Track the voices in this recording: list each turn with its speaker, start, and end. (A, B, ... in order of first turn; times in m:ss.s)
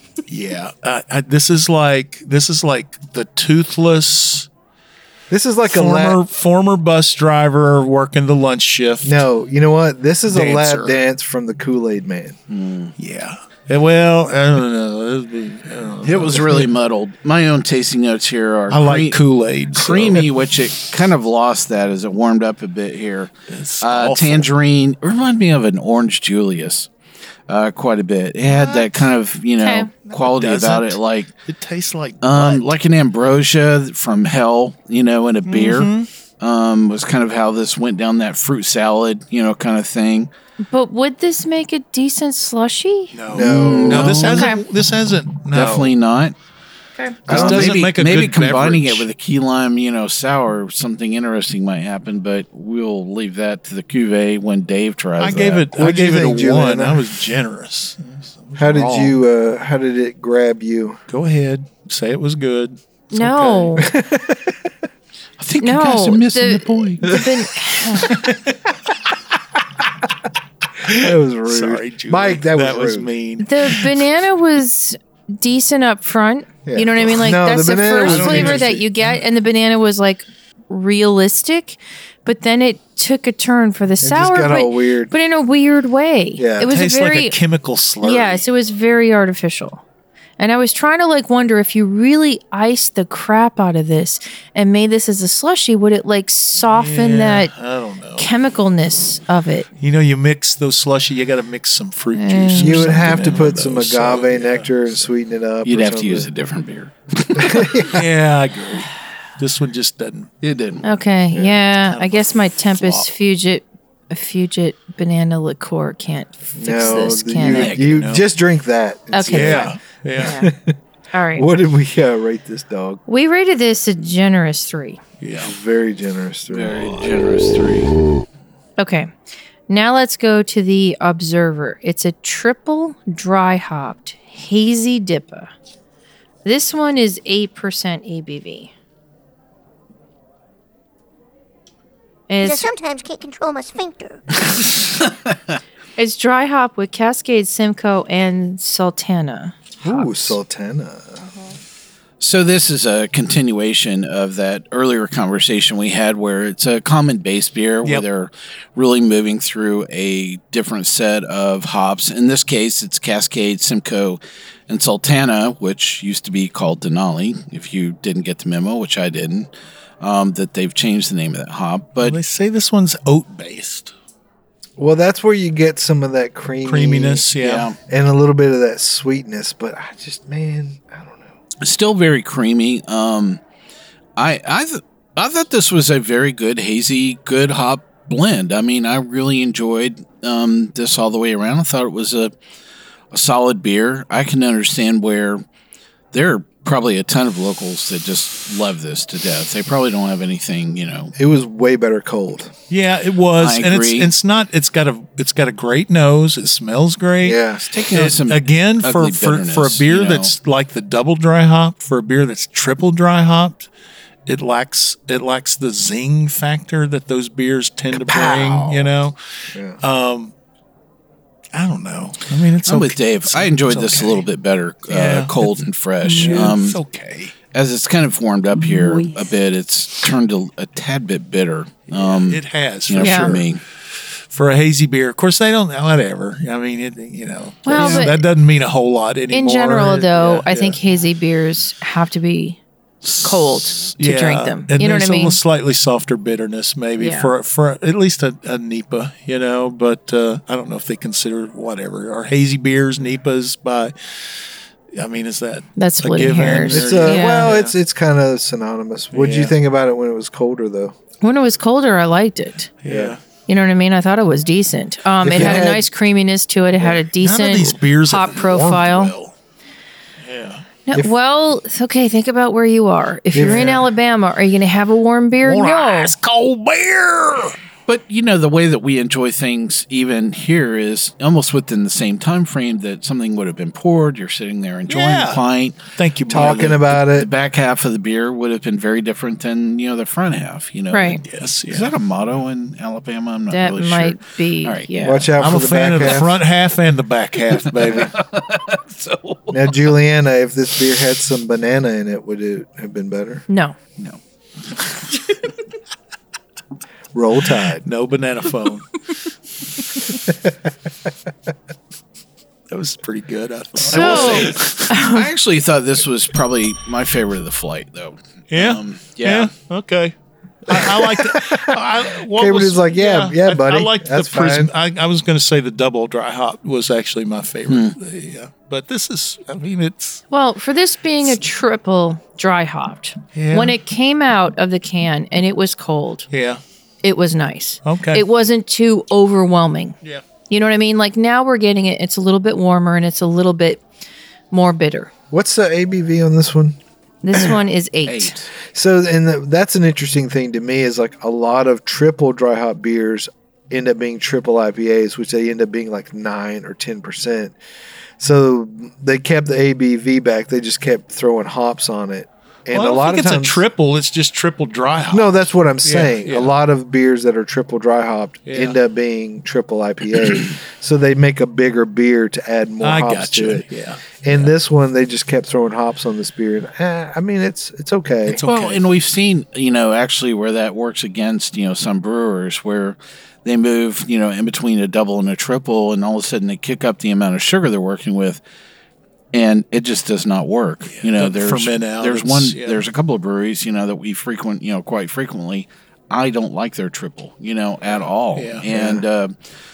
0:00.3-0:04.5 A
0:05.3-0:06.2 B
0:05.7-0:09.2 A
0:09.0-0:12.4 B
0:10.3-0:11.0 A
0:12.5-0:12.9 C
0:13.0-0:16.7 A
0:16.0-0:19.2 C
0:18.7-0:20.3 A
0:19.7-0:26.9 C
0:23.5-0:24.5 A
0:27.5-0:31.3 C
0:28.5-0:28.8 A
0:29.6-0:29.9 D
0:30.0-0:32.7 A
0:32.2-0:40.3 C
0:35.5-0:36.1 A
0:40.7-0:43.2 D
0:43.1-0:45.9 A
0:43.3-0:44.3 B
0:43.4-0:44.5 C
0:44.3-0:44.6 D
0:45.5-0:46.3 C
0:47.0-0:47.2 D
0:47.3-0:49.0 A
0:47.3-0:55.7 C
0:47.3-0:47.8 B
0:55.2-0:59.2 A
0:55.7-0:57.1 B
0:58.6-1:01.0 B
1:01.1-1:03.9 A
1:03.1-1:03.9 D
1:03.8-1:04.6 B
1:05.4-1:07.1 C
1:05.6-1:08.2 D
1:08.0-1:08.6 A
1:10.8-1:13.9 A
1:10.9-1:13.1 B
1:13.4-1:27.4 D
1:16.6-1:18.8 B
1:18.0-1:19.2 A
1:24.0-1:25.1 B
1:26.4-1:26.7 B
1:26.6-1:28.4 A
1:28.0-1:29.8 D
1:30.4-1:37.5 D
1:36.6-1:38.3 A
1:38.2-1:39.7 D
1:39.8-1:45.1 A
1:42.1-1:43.0 D
1:42.6-1:46.3 B
1:45.6-1:48.0 C
1:47.4-1:48.0 B
1:47.9-1:50.3 A
1:50.4-1:50.8 C
1:50.8-1:57.7 D
1:51.7-1:53.1 A
1:56.5-2:00.7 B
1:57.5-1:57.9 C
1:57.5-1:58.2 A
1:59.1-2:00.5 D
1:59.3-2:00.4 A
2:01.1-2:01.5 D
2:01.3-2:03.0 B
2:03.1-2:05.0 D
2:05.2-2:05.5 A
2:05.4-2:06.8 B
2:06.5-2:07.9 C
2:08.8-2:09.1 D
2:09.7-2:15.5 D
2:16.4-2:18.7 D
2:22.3-2:22.7 D
2:22.4-2:24.4 E
2:25.0-2:25.3 C
2:26.0-2:29.6 D
2:29.8-2:31.3 B
2:29.8-2:30.4 A
2:32.2-2:49.5 C
2:50.0-2:52.2 C
2:52.0-2:53.9 A
2:54.8-2:57.2 B
2:56.6-2:57.7 A
2:57.4-2:57.8 C
2:57.9-3:01.4 B
3:01.6-3:03.4 C
3:04.2-3:12.3 C
3:13.1-3:15.4 C
3:16.1-3:21.1 C
3:21.1-3:22.5 B
3:22.7-3:27.4 A
3:23.4-3:24.1 C
3:27.2-3:27.6 B
3:27.7-3:30.3 C
3:27.9-3:33.7 A
3:34.2-3:39.2 A
3:37.9-3:38.9 B
3:39.5-3:39.8 B
3:39.8-3:40.3 A
3:41.5-3:44.2 A
3:42.6-3:46.8 C
3:44.9-3:47.3 A
3:47.5-3:53.6 C
3:48.6-3:49.2 A
3:51.9-3:53.4 A
3:53.0-3:53.4 D
3:54.3-4:00.8 A
3:57.6-3:58.2 D
3:57.7-3:58.1 C
3:59.3-4:02.6 D
4:03.2-4:05.4 D
4:04.0-4:13.9 A
4:07.0-4:07.3 D
4:14.9-4:17.7 A
4:15.8-4:17.5 D
4:16.7-4:20.9 B
4:19.1-4:19.5 A
4:21.2-4:22.7 D
4:22.8-4:23.2 A
4:22.9-4:23.2 B
4:23.5-4:29.1 D
4:25.2-4:25.8 B
4:25.4-4:25.6 A
4:27.2-4:29.3 A
4:30.2-4:30.6 A
4:30.8-4:36.1 D
4:33.3-4:33.9 B
4:33.4-4:33.8 A
4:35.4-4:37.6 A
4:37.9-4:54.9 C
4:44.9-4:45.4 A
4:45.9-4:46.8 A
4:46.3-4:47.3 B
4:50.9-4:51.2 D
4:51.3-4:51.9 A
4:53.5-4:55.3 D
4:55.0-4:56.4 B
4:55.4-4:58.1 A
4:57.5-4:59.9 C
4:59.5-5:03.4 B
5:03.5-5:03.8 D
5:04.7-5:05.0 C
5:07.1-5:07.8 B
5:07.5-5:09.0 A
5:12.7-5:14.9 A
5:13.8-5:19.5 C
5:13.9-5:15.3 D
5:18.5-5:20.1 A
5:20.7-5:30.2 A
5:21.2-5:24.7 B
5:27.7-5:27.9 C
5:30.3-5:36.3 D
5:33.3-5:33.8 A
5:36.3-5:36.6 A
5:37.0-5:40.0 D
5:37.8-5:38.2 A
5:40.5-5:43.8 D
5:44.5-5:45.1 D
5:45.3-5:46.8 B
5:47.2-5:48.4 D
5:48.0-5:48.4 C
5:48.7-5:57.6 B
5:58.2-6:03.6 B
6:02.7-6:06.6 A
6:05.1-6:13.7 B
6:08.5-6:08.8 A
6:12.8-6:14.5 A
6:14.2-6:18.4 B
6:18.3-6:18.8 A
6:18.4-6:28.4 C
6:29.3-6:39.3 C
6:30.9-6:32.8 A
6:38.4-6:38.6 A
6:38.7-6:39.0 B